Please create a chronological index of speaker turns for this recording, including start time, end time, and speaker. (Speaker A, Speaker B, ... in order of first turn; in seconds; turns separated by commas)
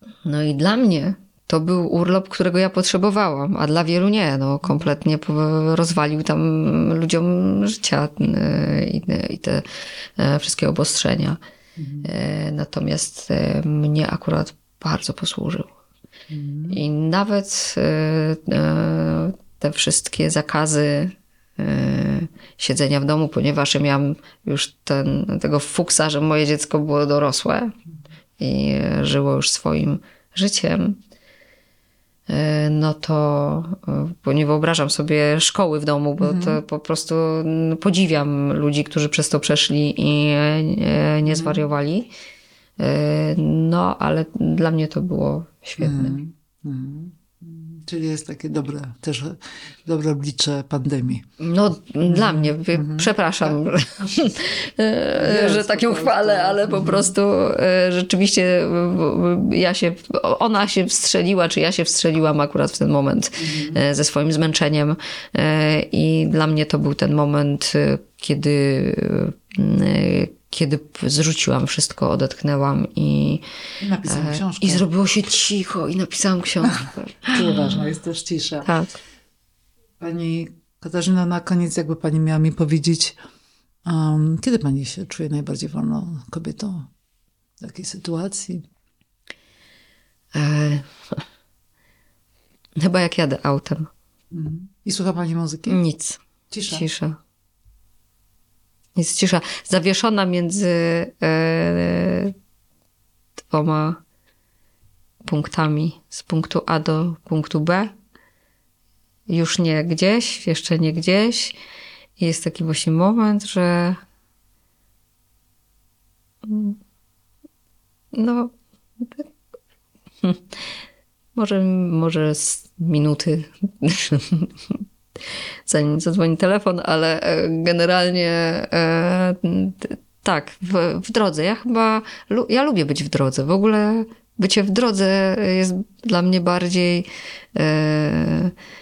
Speaker A: 0.2-9.7, Speaker B: 4.6-4.9, Speaker A: 10.2-11.4, Speaker B: 11.8-12.1, Speaker A: 12.0-15.7, Speaker B: 16.3-16.8, Speaker A: 16.7-27.7, Speaker A: 28.4-31.0, Speaker A: 32.3-42.1, Speaker B: 36.2-36.6, Speaker B: 41.2-41.6, Speaker A: 42.8-46.2, Speaker B: 45.8-51.2, Speaker A: 51.4-73.4, Speaker B: 52.0-53.5, Speaker B: 55.2-57.1, Speaker B: 63.4-63.8, Speaker B: 73.8-74.8, Speaker A: 74.1-77.9, Speaker B: 76.6-78.7, Speaker A: 78.6-79.0, Speaker B: 80.0-83.2, Speaker B: 83.8-86.9, Speaker B: 87.6-88.7, Speaker A: 90.3-91.2, Speaker A: 92.8-93.9, Speaker B: 94.3-95.8, Speaker A: 95.7-97.2, Speaker B: 96.5-96.8, Speaker A: 99.0-102.3, Speaker A: 103.5-104.0, Speaker A: 105.2-107.9, Speaker A: 109.3-111.6, Speaker A: 112.2-114.0, Speaker A: 116.4-116.8, Speaker A: 118.1-119.2, Speaker A: 121.3-124.8, Speaker A: 125.7-138.5